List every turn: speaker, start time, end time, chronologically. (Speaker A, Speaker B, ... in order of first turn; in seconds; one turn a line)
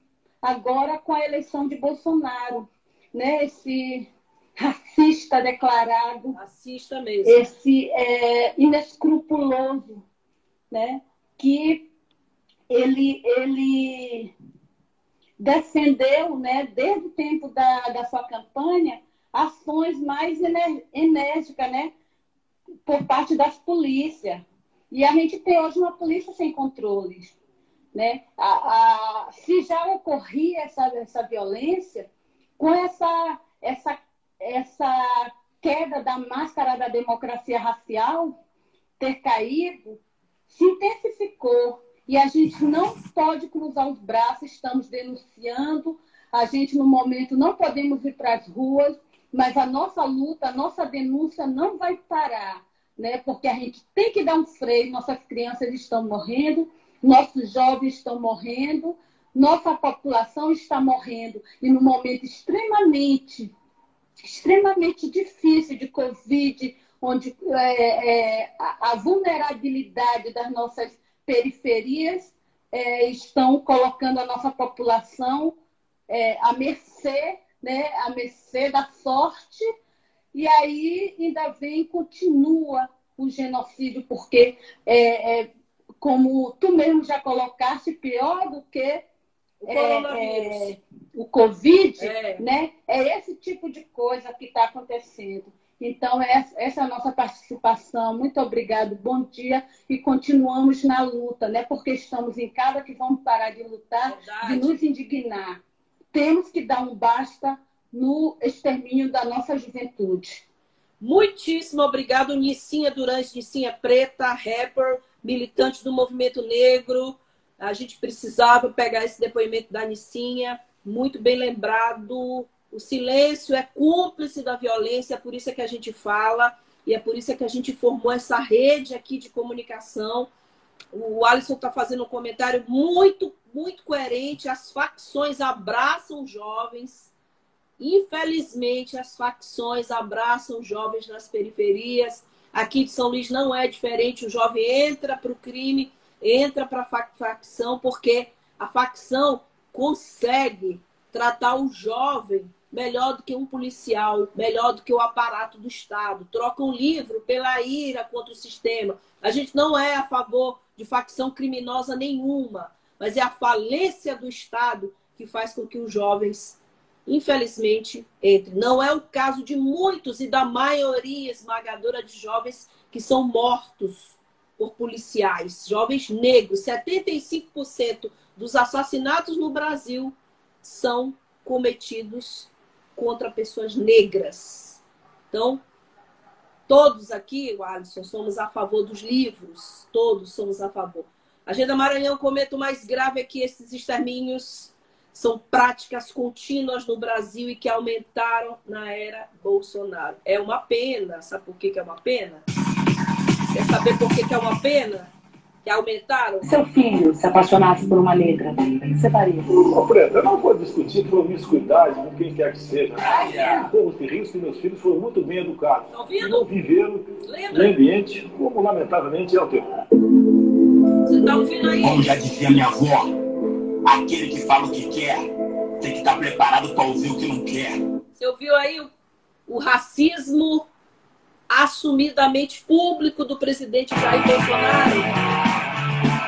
Speaker A: 0.4-6.4
Speaker B: 6.3-7.5
Speaker A: 7.2-10.0
Speaker A: 10.7-11.8
Speaker A: 12.7-14.3
Speaker A: 15.4-21.9
Speaker A: 22.9-27.4
Speaker A: 27.9-38.3
Speaker A: 39.0-63.5
Speaker A: 64.2-75.5
Speaker A: 76.1-79.7
Speaker A: 80.3-85.5
Speaker A: 86.0-89.0
Speaker B: 89.6-90.7
Speaker A: 89.7-105.6
Speaker B: 92.0-92.4
Speaker B: 104.1-104.8
Speaker A: 106.1-110.4
Speaker B: 111.0-130.3
Speaker B: 130.9-137.1
Speaker B: 137.8-185.6
Speaker B: 186.7-202.4
Speaker B: 203.5-205.1
Speaker B: 205.6-206.5
Speaker C: 206.4-209.7
Speaker D: 209.5-219.6
Speaker B: 215.9-216.5
Speaker B: 217.2-217.7
Speaker B: 221.0-222.1
Speaker E: 221.8-223.1
Speaker E: 223.8-225.2
Speaker E: 225.8-227.8
Speaker B: 228.2-228.9
Speaker B: 229.5-230.7
Speaker B: 231.5-235.1